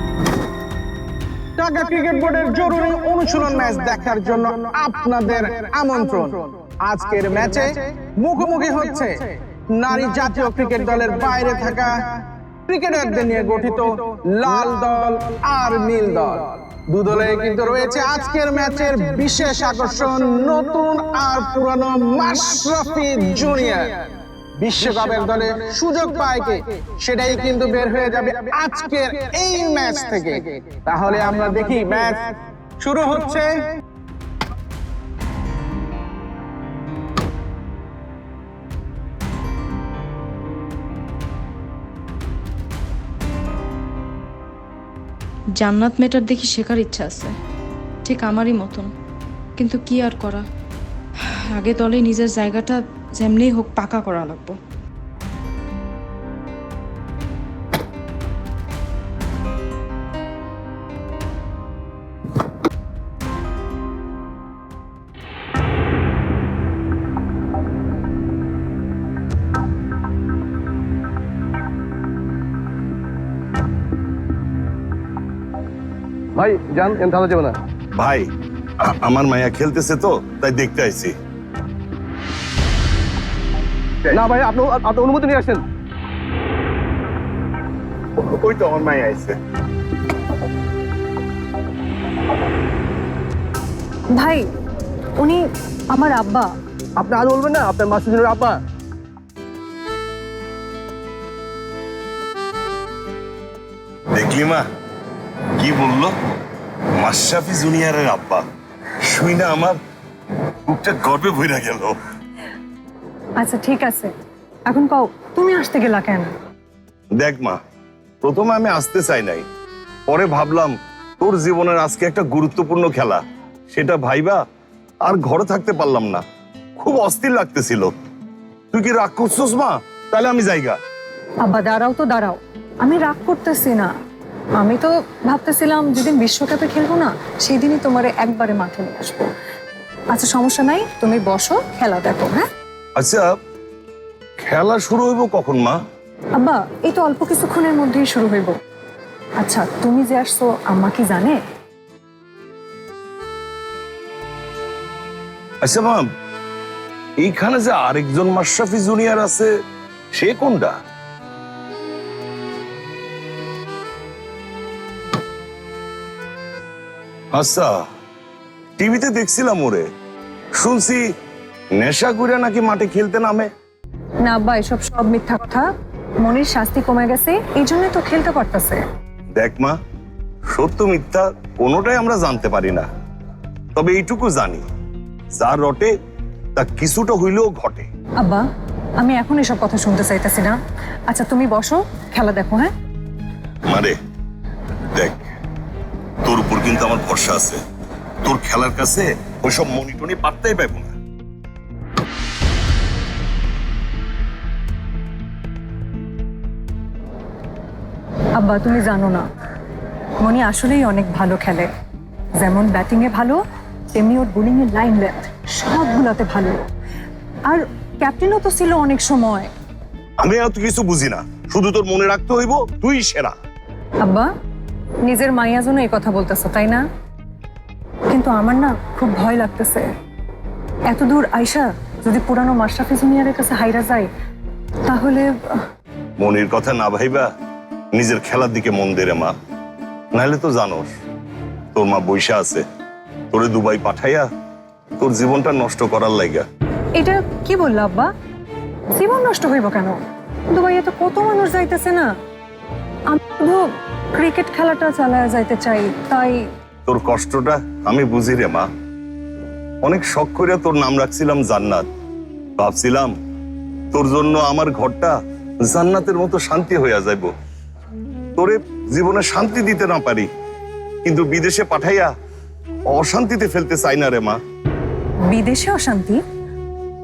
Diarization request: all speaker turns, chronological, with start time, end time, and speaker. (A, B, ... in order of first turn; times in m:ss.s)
0:01.6-0:33.7 A
0:45.6-0:47.4 B
0:48.0-0:48.9 B
0:49.6-0:50.4 B
0:51.5-0:54.6 B
1:16.4-1:17.6 C
1:18.0-1:18.3 D
1:18.8-1:21.1 D
1:24.1-1:25.6 C
1:28.2-1:29.4 D
1:34.1-1:34.4 E
1:35.2-1:36.5 E
1:37.0-1:38.6 C
1:44.1-1:44.6 D
1:45.5-1:46.1 D
1:47.0-1:48.4 D
1:49.0-1:49.8 D
1:50.6-1:52.0 D
1:53.4-1:54.1 E
1:54.7-1:56.3 E
1:57.2-1:57.6 D
1:58.2-1:59.4 D
2:00.1-2:04.4 D
2:05.0-2:06.2 D
2:06.8-2:07.9 D
2:08.7-2:10.8 D
2:11.4-2:13.9 E
2:14.6-2:19.3 E
2:20.1-2:22.4 E
2:23.0-2:23.4 D
2:24.4-2:25.8 D
2:26.4-2:28.5 E
2:29.4-2:31.4 E
2:35.6-2:36.1 D
2:37.2-2:39.5 D
2:40.1-2:40.8 D
2:47.3-2:47.8 D
2:48.8-2:49.8 D
2:50.6-2:51.0 D
2:51.8-2:53.5 D
2:54.2-2:55.7 E
2:56.2-2:58.8 E
2:59.3-2:59.8 D
3:00.5-3:02.8 D
3:03.7-3:04.6 D
3:05.4-3:05.9 D
3:06.6-3:07.9 D
3:08.2-3:08.4 E
3:09.0-3:10.6 E
3:11.1-3:12.7 E
3:13.7-3:13.9 D
3:14.9-3:15.2 D
3:16.2-3:17.6 D
3:18.2-3:20.9 D
3:28.4-3:29.2 E
3:30.2-3:31.7 E
3:32.4-3:33.4 E
3:33.9-3:36.7 E
3:37.5-3:39.5 E
3:40.2-3:43.3 D
3:44.0-3:44.3 E
3:45.0-3:46.8 E
3:48.1-3:49.9 E
3:50.9-3:54.1 E
3:54.9-3:55.6 E
3:56.2-3:57.3 D
3:57.9-3:59.3 D
4:00.1-4:00.9 D
4:01.7-4:02.6 D
4:03.3-4:04.3 D
4:05.0-4:06.4 D
4:07.0-4:08.1 E
4:09.0-4:10.0 E
4:10.5-4:12.1 E
4:13.1-4:16.4 E
4:16.9-4:18.7 D
4:19.8-4:21.9 D
4:22.6-4:23.1 D
4:23.9-4:27.3 D
4:28.4-4:30.3 D
4:31.0-4:32.1 D
4:32.9-4:34.4 D
4:35.3-4:36.2 E